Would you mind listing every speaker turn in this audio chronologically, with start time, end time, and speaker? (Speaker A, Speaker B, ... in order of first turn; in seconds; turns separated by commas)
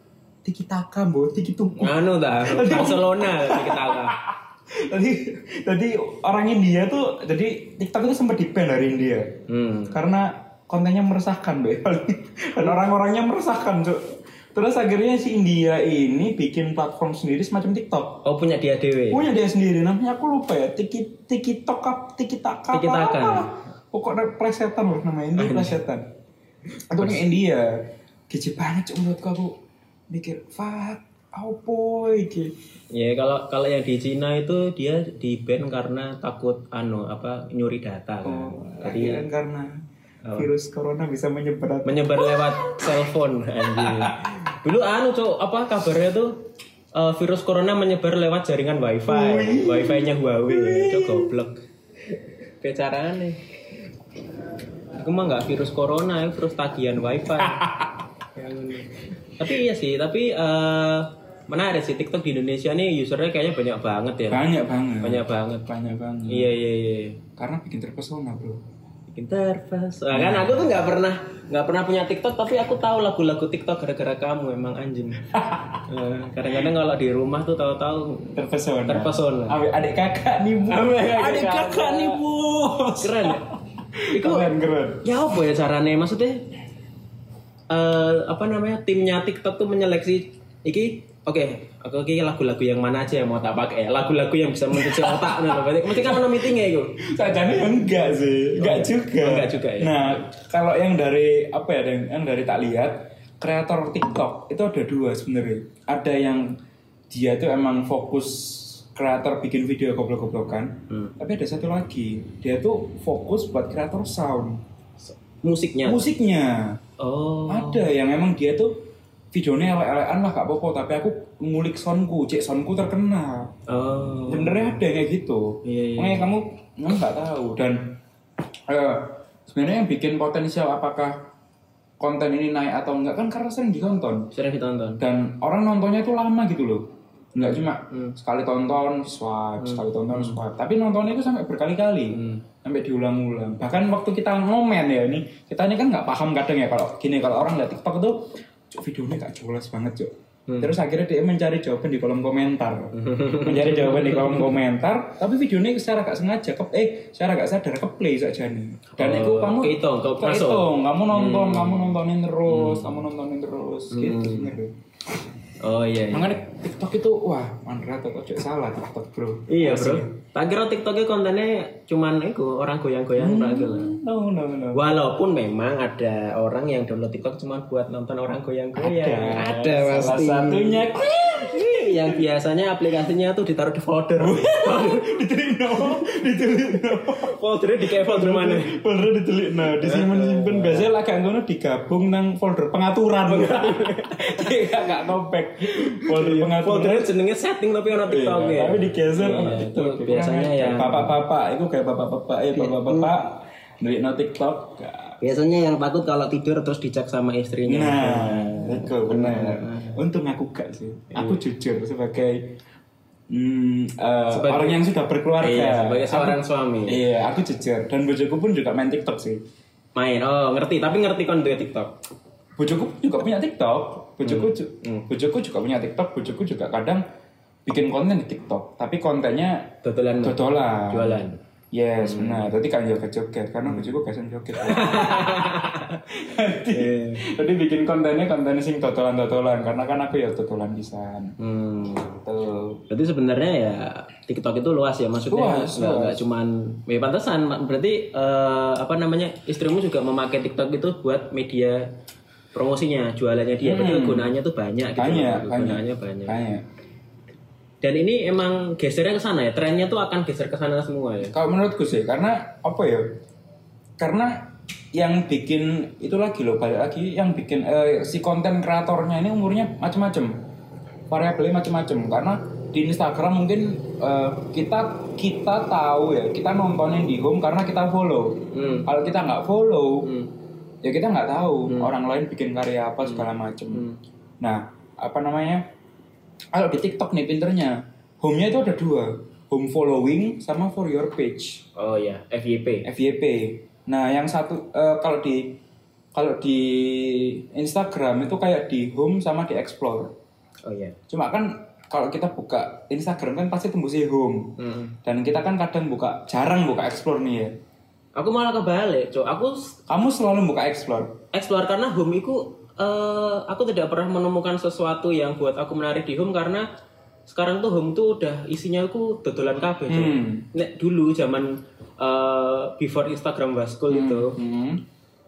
Speaker A: 0.4-9.3, Speaker B: 1.8-4.2, Speaker B: 9.5-10.0, Speaker A: 9.9-14.0, Speaker A: 14.5-18.2, Speaker B: 18.2-19.2, Speaker A: 19.1-26.1, Speaker B: 22.7-23.5, Speaker B: 25.4-25.8, Speaker A: 26.9-27.7, Speaker B: 27.0-27.2, Speaker A: 28.3-29.6, Speaker A: 30.1-32.5, Speaker B: 32.9-39.2, Speaker A: 38.2-39.8, Speaker B: 40.2-40.5, Speaker A: 40.4-43.0, Speaker B: 41.8-51.6, Speaker A: 43.6-44.3, Speaker A: 49.1-51.3, Speaker B: 52.6-53.4, Speaker B: 55.0-57.6, Speaker A: 57.4-58.0, Speaker B: 58.3-64.4, Speaker A: 64.3-66.5, Speaker B: 65.0-65.7, Speaker B: 66.3-67.2, Speaker A: 67.4-68.6, Speaker B: 69.1-75.3, Speaker A: 70.1-70.8, Speaker A: 75.2-75.8, Speaker B: 75.9-78.3, Speaker A: 78.3-85.0, Speaker B: 78.9-79.6, Speaker B: 80.7-82.2, Speaker B: 83.0-83.4, Speaker B: 84.1-84.5, Speaker B: 85.0-86.5, Speaker B: 87.7-97.0, Speaker A: 94.7-106.5, Speaker B: 98.5-100.2, Speaker A: 107.1-114.6, Speaker B: 115.0-116.1, Speaker A: 115.8-116.8, Speaker B: 117.0-117.9, Speaker A: 117.5-118.7, Speaker A: 119.3-123.5, Speaker B: 123.7-124.8, Speaker A: 124.3-128.0, Speaker B: 125.6-126.3, Speaker A: 128.7-131.2, Speaker A: 132.0-134.3, Speaker B: 134.3-135.0, Speaker A: 135.0-152.9, Speaker B: 137.4-138.2, Speaker B: 139.6-140.4, Speaker B: 142.1-142.4, Speaker B: 150.5-150.7, Speaker B: 152.9-154.6, Speaker A: 153.4-164.7, Speaker B: 158.9-162.0, Speaker B: 162.5-163.0, Speaker B: 163.9-164.5, Speaker B: 165.6-166.3, Speaker A: 166.1-170.2, Speaker B: 169.5-173.9, Speaker A: 173.2-174.8, Speaker B: 174.7-185.2, Speaker A: 178.8-182.2, Speaker A: 184.2-197.1, Speaker B: 185.7-186.1, Speaker B: 186.8-188.8, Speaker B: 189.7-190.9, Speaker B: 193.3-195.0, Speaker B: 195.7-201.2, Speaker A: 198.1-205.2, Speaker B: 202.5-203.1, Speaker B: 205.2-210.0, Speaker A: 207.7-212.6, Speaker B: 211.1-211.4, Speaker A: 213.3-219.4, Speaker B: 214.3-214.8, Speaker B: 215.4-217.0, Speaker B: 219.9-221.9, Speaker A: 222.6-227.0, Speaker B: 224.2-225.1, Speaker A: 227.7-231.2, Speaker B: 229.8-231.4, Speaker A: 231.7-241.3, Speaker B: 232.0-232.5, Speaker B: 233.6-233.9, Speaker B: 234.6-236.0, Speaker B: 236.7-237.3, Speaker B: 241.4-242.2, Speaker A: 242.2-242.8, Speaker B: 242.9-251.9, Speaker A: 245.3-246.2, Speaker B: 252.5-256.4, Speaker A: 253.6-254.3, Speaker A: 255.0-256.6, Speaker B: 257.8-261.3, Speaker A: 261.3-263.2, Speaker A: 264.0-270.4, Speaker A: 271.1-280.1, Speaker B: 278.5-278.9, Speaker B: 280.0-280.3, Speaker A: 280.8-283.9, Speaker B: 281.7-281.9, Speaker B: 283.0-284.0, Speaker A: 284.4-285.6, Speaker A: 286.5-291.6, Speaker B: 291.8-292.9, Speaker A: 292.8-295.6, Speaker A: 296.1-300.1, Speaker B: 300.6-301.0, Speaker A: 301.1-307.5, Speaker B: 304.6-305.0, Speaker B: 308.1-309.8, Speaker A: 309.9-311.2, Speaker B: 311.3-316.6, Speaker B: 317.3-324.4, Speaker A: 319.9-320.5, Speaker A: 323.9-324.8